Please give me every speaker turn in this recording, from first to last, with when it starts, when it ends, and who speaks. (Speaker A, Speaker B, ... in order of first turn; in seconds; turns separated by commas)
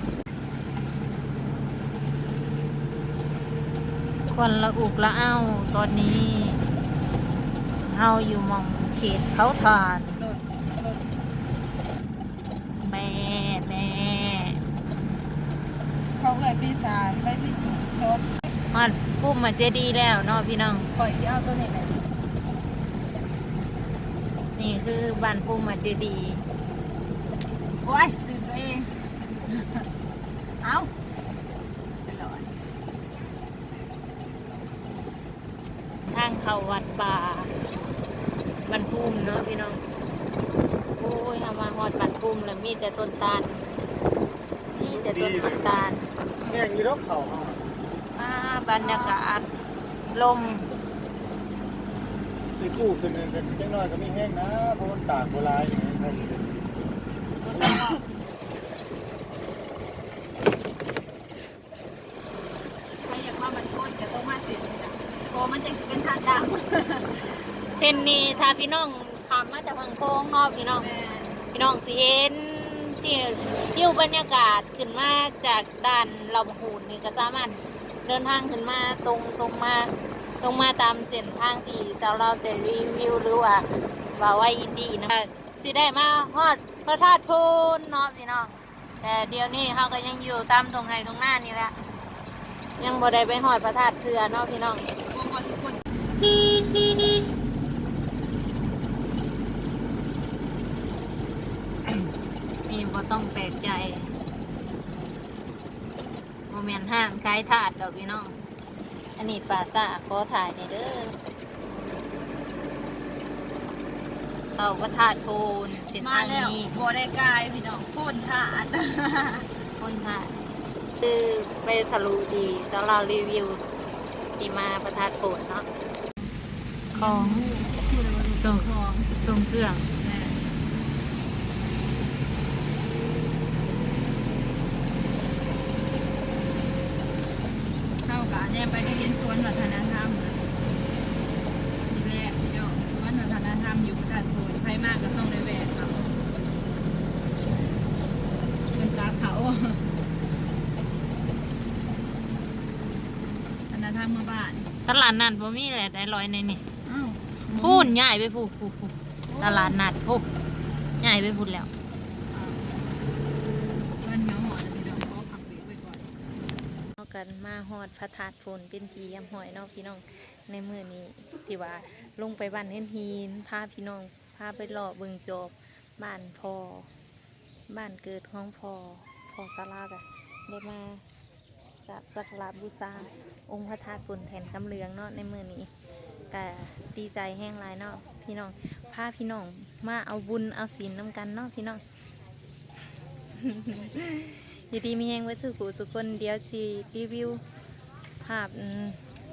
Speaker A: 4.3-6.6, Speaker A: 7.9-10.2, Speaker B: 10.2-11.0, Speaker A: 12.8-14.6, Speaker B: 16.2-18.3, Speaker A: 18.7-20.9, Speaker B: 20.9-22.0, Speaker A: 24.6-26.4, Speaker B: 27.8-28.9, Speaker B: 29.5-29.9, Speaker B: 30.6-30.9, Speaker B: 32.0-32.5, Speaker A: 36.1-37.5, Speaker A: 38.7-39.8, Speaker A: 41.0-43.6, Speaker A: 44.7-46.0, Speaker C: 46.7-47.6, Speaker A: 48.2-49.5, Speaker B: 48.8-49.2, Speaker A: 50.1-50.6, Speaker C: 52.6-56.5, Speaker B: 57.4-58.0, Speaker B: 63.0-68.5, Speaker A: 67.8-70.9, Speaker B: 70.8-71.4, Speaker A: 71.5-91.8, Speaker A: 92.8-94.9, Speaker B: 95.1-95.8, Speaker A: 102.7-104.1, Speaker A: 106.5-108.3, Speaker A: 109.2-111.2, Speaker A: 114.6-116.7, Speaker B: 116.0-119.5, Speaker A: 119.8-120.3, Speaker A: 121.0-123.6, Speaker A: 124.4-125.7, Speaker A: 126.9-127.5, Speaker B: 126.9-129.1, Speaker A: 128.3-128.7, Speaker A: 129.2-129.9, Speaker B: 130.0-130.4, Speaker B: 138.0-140.5, Speaker B: 141.9-146.1, Speaker B: 148.7-149.8, Speaker B: 153.7-154.6, Speaker A: 154.9-156.6, Speaker B: 156.8-157.9, Speaker A: 157.6-160.3, Speaker B: 159.3-159.8, Speaker A: 161.0-161.7, Speaker B: 162.3-162.6, Speaker B: 164.0-166.1, Speaker A: 167.0-176.9, Speaker A: 177.7-181.0, Speaker A: 181.9-185.7, Speaker A: 186.3-191.8, Speaker A: 193.4-197.4, Speaker A: 198.2-199.0